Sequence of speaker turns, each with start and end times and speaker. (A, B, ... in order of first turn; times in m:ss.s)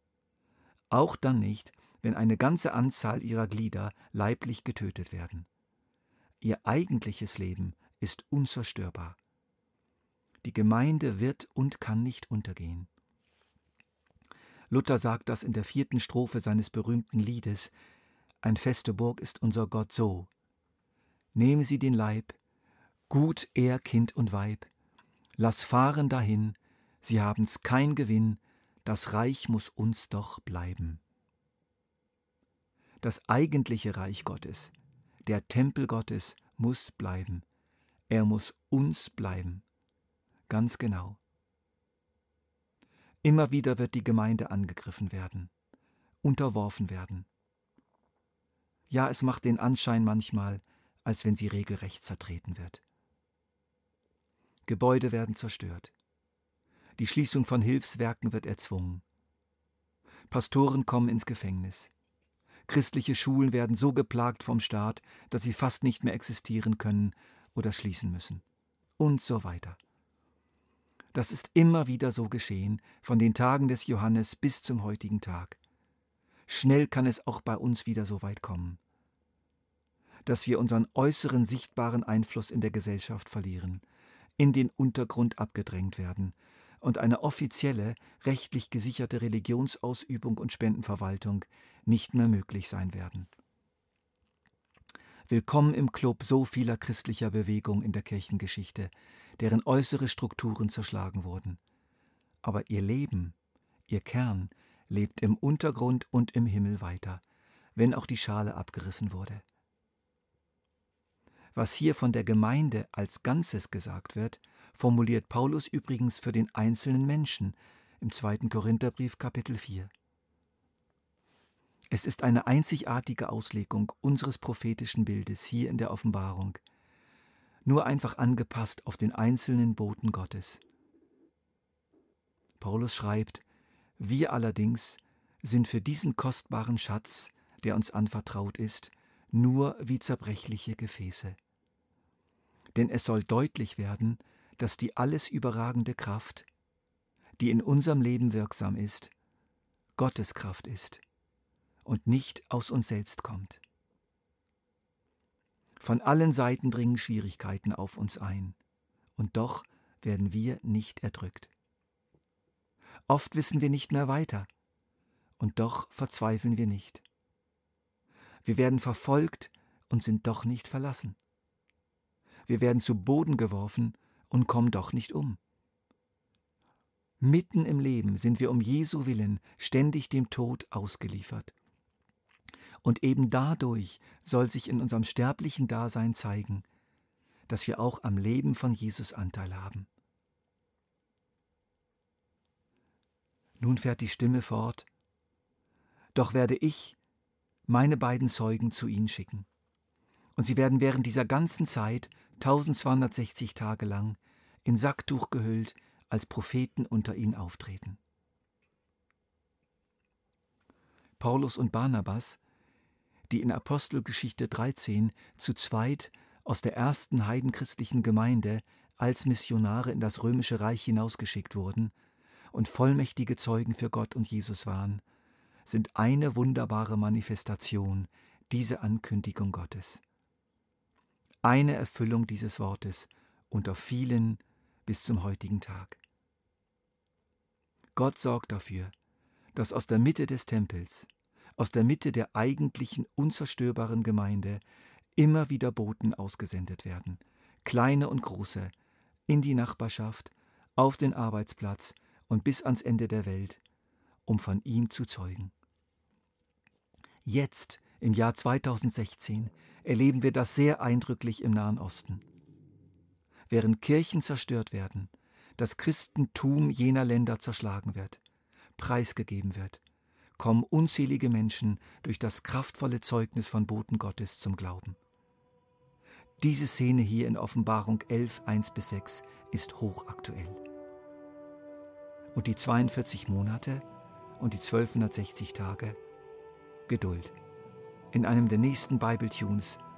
0:00.9-0:05.5 A
0:06.4-0:09.2 A
0:10.4-0:12.9 A
0:14.7-0:17.7 A
0:18.4-0:20.3 A
0:21.3-0:22.4 A
0:23.1-0:24.7 A
0:25.4-0:31.0 A
0:33.0-0:34.7 A
0:35.2-0:37.4 A
0:38.1-0:39.6 A
0:40.5-0:41.2 A
0:43.2-0:45.5 A
0:46.2-0:47.3 A
0:48.9-0:52.8 A
0:54.6-0:55.9 A
0:57.0-0:59.0 A
1:00.3-1:01.9 A
1:02.7-1:08.4 A
1:09.0-1:09.8 A
1:11.1-1:15.6 A
1:16.5-1:18.8 A
1:20.2-1:23.8 A
1:24.4-1:33.3 A
1:35.3-1:41.6 A
1:42.4-1:43.3 A
1:43.9-1:47.2 A
1:47.8-1:49.4 A
1:51.5-1:59.9 A
2:01.9-2:06.6 A
2:07.6-2:10.6 A
2:12.6-2:13.4 A
2:14.0-2:21.4 A
2:22.7-2:26.5 A
2:27.4-2:29.1 A
2:30.0-2:31.0 A
2:31.8-2:33.6 A
2:35.8-2:38.6 A
2:39.2-2:41.5 A
2:43.1-2:44.5 A
2:45.4-2:47.0 A
2:48.4-2:51.2 A
2:52.5-2:55.4 A
2:57.2-3:01.5 A
3:02.8-3:06.6 A
3:07.5-3:09.9 A
3:13.6-3:14.9 A
3:16.1-3:17.0 A
3:17.7-3:19.5 A
3:20.4-3:28.0 A
3:31.2-3:32.4 A
3:33.3-3:41.9 A
3:42.5-3:45.0 A
3:45.7-3:50.0 A
3:51.4-3:56.0 A
3:57.9-3:58.9 A
3:59.6-4:04.6 A
4:05.2-4:08.7 A
4:09.3-4:13.6 A
4:14.2-4:15.5 A
4:17.2-4:22.2 A
4:23.5-4:28.2 A
4:28.8-4:29.8 A
4:30.4-4:35.0 A
4:36.4-4:40.6 A
4:42.3-4:43.8 A
4:44.4-4:46.0 A
4:46.9-4:47.4 A
4:48.1-4:49.8 A